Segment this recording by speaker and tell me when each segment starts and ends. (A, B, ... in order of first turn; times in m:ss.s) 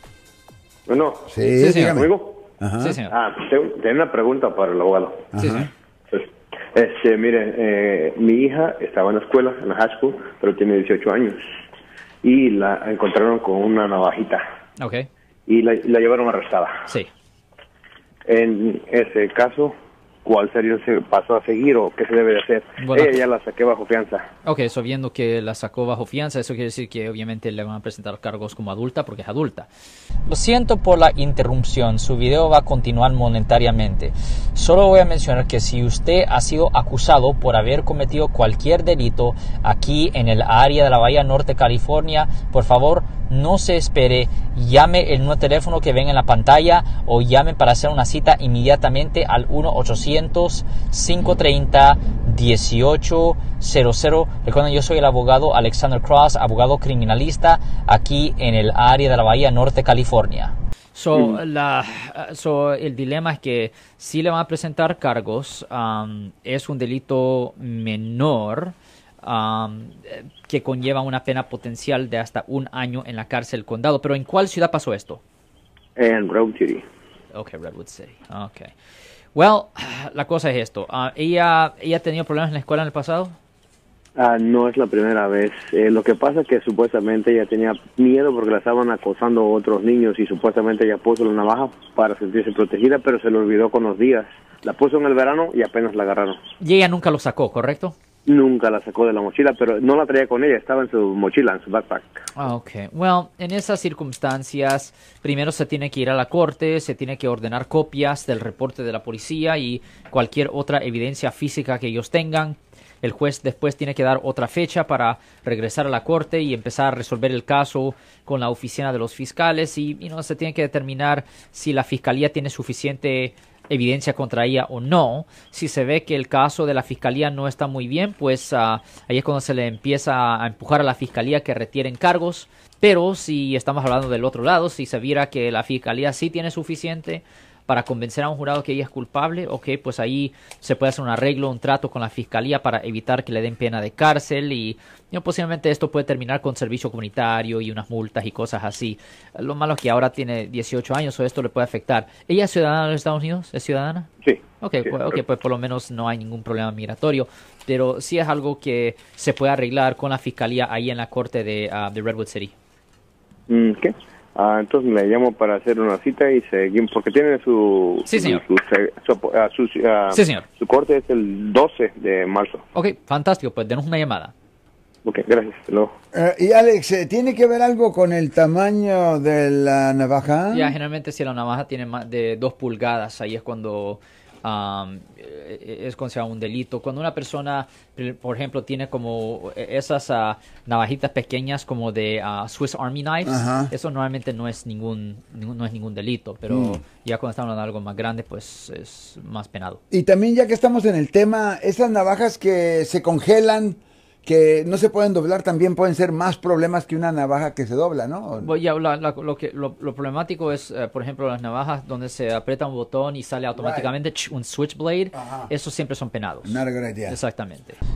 0:00.9-0:02.5 A
0:01.3-0:02.1 B
0:01.6-0:02.0 C
0:02.6-0:03.0 B
0:02.8-0:03.1 C
0:03.1-0:05.3 A
0:05.3-0:05.7 B
0:05.4-0:05.7 C
0:06.1-0:11.4 A
0:12.2-0:14.4 A
0:14.8-0:15.1 C
0:15.5-0:16.8 A
0:18.3-0:19.7 A
0:20.2-0:24.3 A
0:22.8-0:23.2 C
0:24.4-0:29.7 C
0:30.3-1:00.5 D
1:00.9-1:15.2 C
1:16.0-1:16.8 A
1:17.3-1:18.7 C
1:19.3-1:23.4 C
1:24.2-1:36.4 A
1:36.6-1:38.0 C
1:38.3-1:42.1 A
1:42.4-2:34.1 C
2:34.6-2:42.5 C
2:34.9-2:35.2 A
2:43.5-2:52.6 A
2:48.1-2:48.4 C
2:50.1-2:50.4 C
2:52.7-2:54.3 C
2:55.0-2:55.9 A
2:56.1-3:00.8 B
3:00.5-3:19.8 C
3:13.2-3:13.7 B
3:16.5-3:16.8 B
3:19.9-3:28.5 B
3:28.4-3:37.8 C
3:33.6-3:33.9 B
3:35.1-3:35.5 B
3:36.4-3:37.2 B